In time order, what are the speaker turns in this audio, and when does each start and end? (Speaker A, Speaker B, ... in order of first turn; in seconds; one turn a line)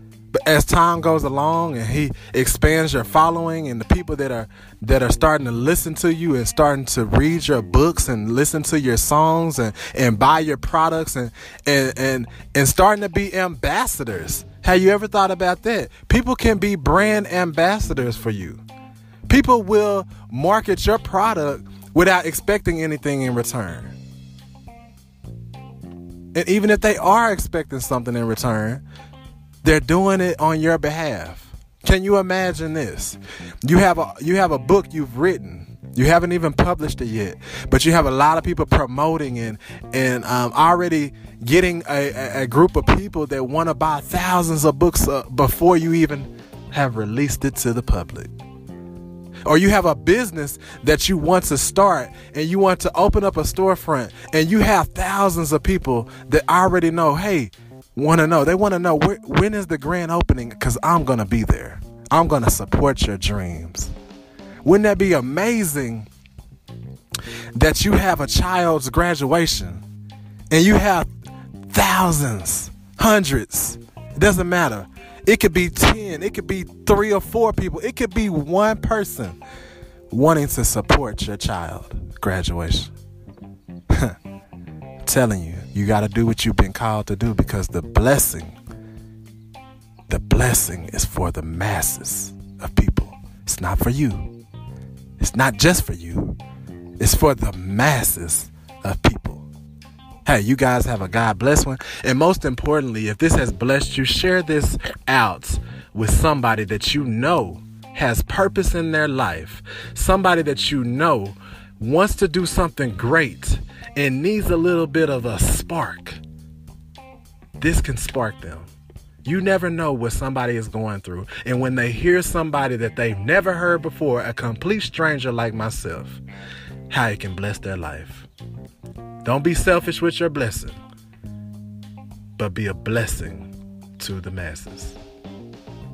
Speaker A: 0.3-18.6
Speaker A: 19.3-23.9
Speaker A: 26.3-28.8
Speaker A: 29.6-48.3
Speaker A: 49.5-63.9
Speaker A: 64.6-66.1
Speaker A: 67.5-69.8
Speaker A: 70.5-71.1
Speaker A: 71.7-79.4
Speaker A: 80.1-82.9
Speaker A: 83.9-84.2
Speaker A: 85.0-88.6
Speaker A: 90.1-94.3
Speaker A: 95.2-96.4
Speaker A: 97.0-99.5
Speaker A: 100.2-116.2
Speaker A: 117.6-118.7
Speaker A: 119.2-126.2
Speaker A: 126.9-128.3
Speaker A: 129.2-130.8
Speaker A: 132.4-135.0